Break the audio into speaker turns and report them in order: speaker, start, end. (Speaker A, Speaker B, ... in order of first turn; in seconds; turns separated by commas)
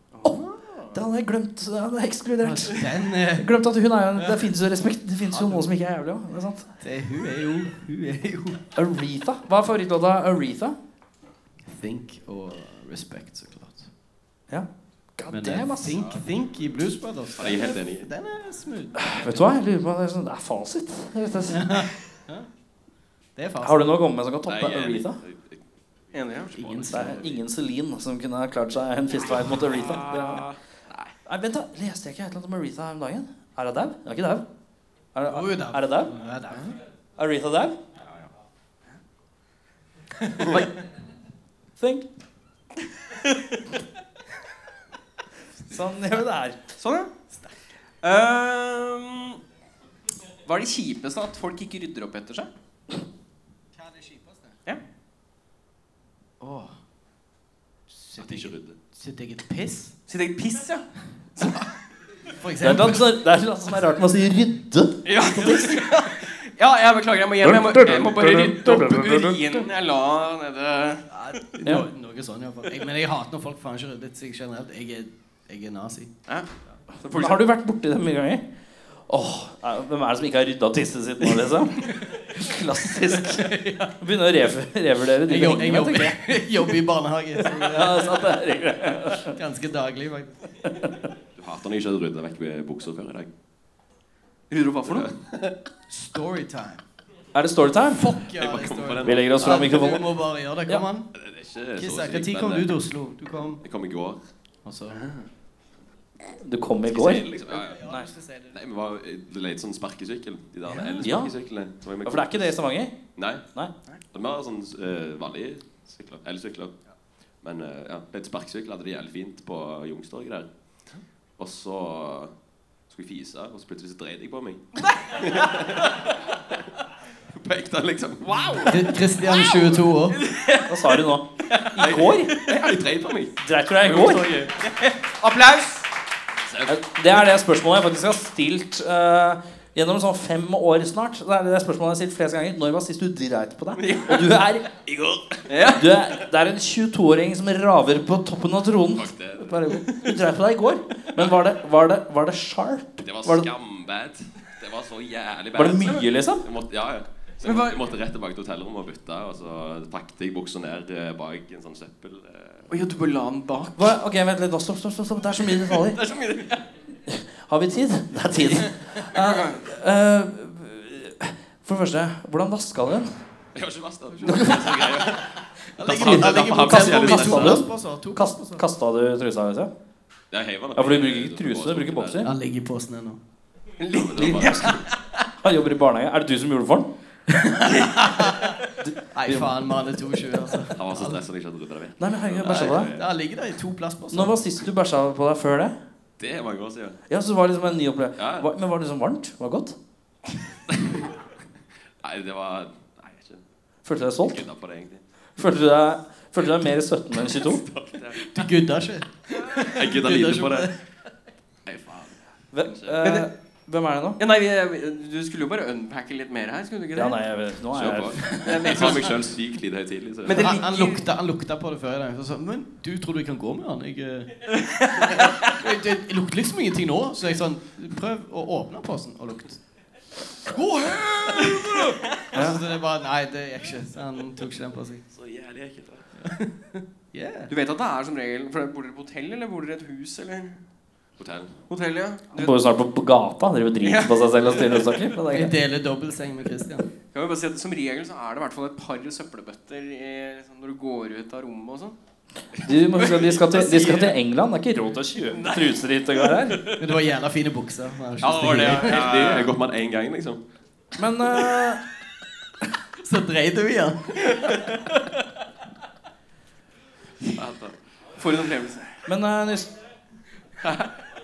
Speaker A: 0.1-0.9, Speaker B: 0.9-6.8, Speaker C: 2.4-3.5, Speaker C: 4.2-4.4, Speaker C: 5.3-5.7, Speaker C: 6.8-8.6, Speaker B: 8.8-10.8, Speaker C: 11.7-13.9, Speaker B: 14.5-16.1, Speaker C: 15.3-19.5, Speaker D: 17.4-18.1, Speaker B: 19.0-22.0, Speaker C: 21.5-22.5, Speaker C: 23.4-23.9, Speaker B: 23.6-25.2, Speaker D: 24.5-25.6, Speaker A: 26.1-26.5, Speaker D: 26.1-27.3, Speaker C: 26.5-27.4, Speaker B: 26.9-30.5, Speaker A: 29.6-30.6, Speaker B: 31.2-34.4, Speaker B: 35.1-36.1, Speaker C: 35.3-36.7, Speaker B: 37.2-37.8, Speaker B: 41.8-42.1, Speaker A: 43.2-43.6, Speaker B: 45.7-46.8, Speaker A: 46.8-47.1, Speaker A: 48.0-49.4, Speaker A: 50.5-52.5, Speaker C: 53.7-54.6, Speaker C: 56.4-56.8, Speaker C: 57.9-60.0, Speaker D: 58.2-58.8, Speaker A: 60.1-61.7, Speaker C: 62.3-63.1, Speaker B: 62.6-65.8, Speaker A: 65.0-71.1, Speaker B: 67.4-69.7, Speaker C: 71.1-76.1, Speaker A: 77.0-77.4, Speaker B: 77.1-78.4, Speaker B: 79.1-86.3, Speaker C: 81.8-82.3, Speaker C: 83.1-84.0, Speaker C: 85.2-88.2, Speaker B: 87.6-89.4, Speaker C: 89.2-90.8, Speaker B: 90.8-91.0, Speaker D: 91.4-93.3, Speaker A: 94.5-95.1, Speaker D: 94.9-95.5, Speaker C: 95.9-96.8, Speaker B: 97.3-98.1, Speaker C: 97.9-101.1, Speaker D: 98.4-99.8, Speaker B: 99.0-100.2, Speaker D: 101.1-102.7, Speaker C: 101.8-103.6, Speaker D: 103.6-104.2, Speaker C: 104.6-105.0, Speaker A: 105.0-105.3, Speaker B: 106.2-107.3, Speaker D: 106.8-107.9, Speaker C: 107.4-108.6, Speaker D: 108.5-112.5, Speaker C: 110.7-111.1, Speaker B: 111.0-111.4, Speaker B: 112.0-113.0, Speaker D: 113.2-113.4, Speaker D: 114.1-116.8, Speaker D: 117.4-120.5, Speaker D: 121.4-122.4, Speaker D: 122.9-126.2, Speaker A: 124.8-125.8, Speaker D: 127.3-128.9, Speaker A: 128.2-130.8, Speaker C: 128.6-130.2, Speaker B: 130.7-132.4, Speaker A: 131.4-132.8, Speaker D: 131.8-134.6, Speaker B: 133.4-134.3, Speaker A: 133.9-135.9, Speaker D: 136.4-136.8, Speaker B: 136.7-144.7, Speaker A: 143.8-144.3, Speaker D: 144.8-145.7, Speaker A: 145.5-145.9, Speaker B: 145.7-153.5, Speaker D: 148.9-150.1, Speaker D: 153.0-162.8, Speaker B: 155.5-156.5, Speaker A: 157.4-157.9, Speaker A: 162.7-163.9, Speaker B: 163.8-166.0, Speaker A: 165.4-166.7, Speaker B: 167.1-173.2, Speaker A: 168.5-169.6, Speaker D: 173.6-177.7, Speaker C: 174.2-178.7, Speaker B: 174.3-174.7, Speaker B: 175.8-179.7, Speaker D: 180.3-182.3, Speaker B: 180.8-182.3, Speaker C: 182.2-183.2, Speaker A: 183.8-185.3, Speaker D: 183.9-184.9, Speaker B: 184.2-184.8, Speaker B: 185.4-186.9, Speaker C: 187.3-188.6, Speaker A: 187.7-188.6, Speaker B: 188.8-189.6, Speaker C: 189.1-191.2, Speaker D: 190.7-193.1, Speaker B: 192.0-192.9, Speaker C: 192.5-194.4, Speaker B: 194.1-195.8, Speaker D: 196.2-197.0, Speaker B: 197.1-199.8, Speaker D: 198.2-198.5, Speaker D: 200.7-201.2, Speaker D: 202.0-203.4, Speaker B: 203.8-204.5, Speaker D: 204.2-205.0, Speaker B: 205.4-207.6, Speaker D: 207.2-208.3, Speaker C: 208.2-210.8, Speaker D: 209.6-210.7, Speaker D: 211.7-213.0, Speaker B: 212.5-214.2, Speaker A: 213.0-213.3, Speaker A: 214.2-217.2, Speaker B: 216.9-218.4, Speaker D: 217.7-220.6, Speaker C: 218.3-218.7, Speaker A: 218.3-219.3, Speaker A: 220.2-221.1, Speaker C: 220.3-229.6, Speaker A: 224.6-225.5, Speaker C: 230.4-235.0, Speaker B: 232.3-232.6, Speaker D: 235.1-236.2, Speaker C: 236.2-237.5, Speaker A: 237.5-240.6, Speaker D: 241.2-241.6, Speaker A: 241.7-242.6, Speaker B: 242.3-245.5, Speaker A: 243.8-245.0, Speaker C: 245.3-246.9, Speaker A: 247.1-252.0, Speaker B: 252.6-256.6, Speaker D: 252.7-253.3, Speaker A: 253.0-254.2, Speaker A: 255.3-256.7, Speaker C: 256.8-259.1, Speaker A: 258.2-259.5, Speaker D: 258.5-260.4, Speaker B: 260.9-261.8, Speaker C: 263.0-264.2, Speaker A: 264.3-264.8, Speaker D: 267.2-267.8, Speaker A: 268.2-269.0, Speaker B: 269.1-269.7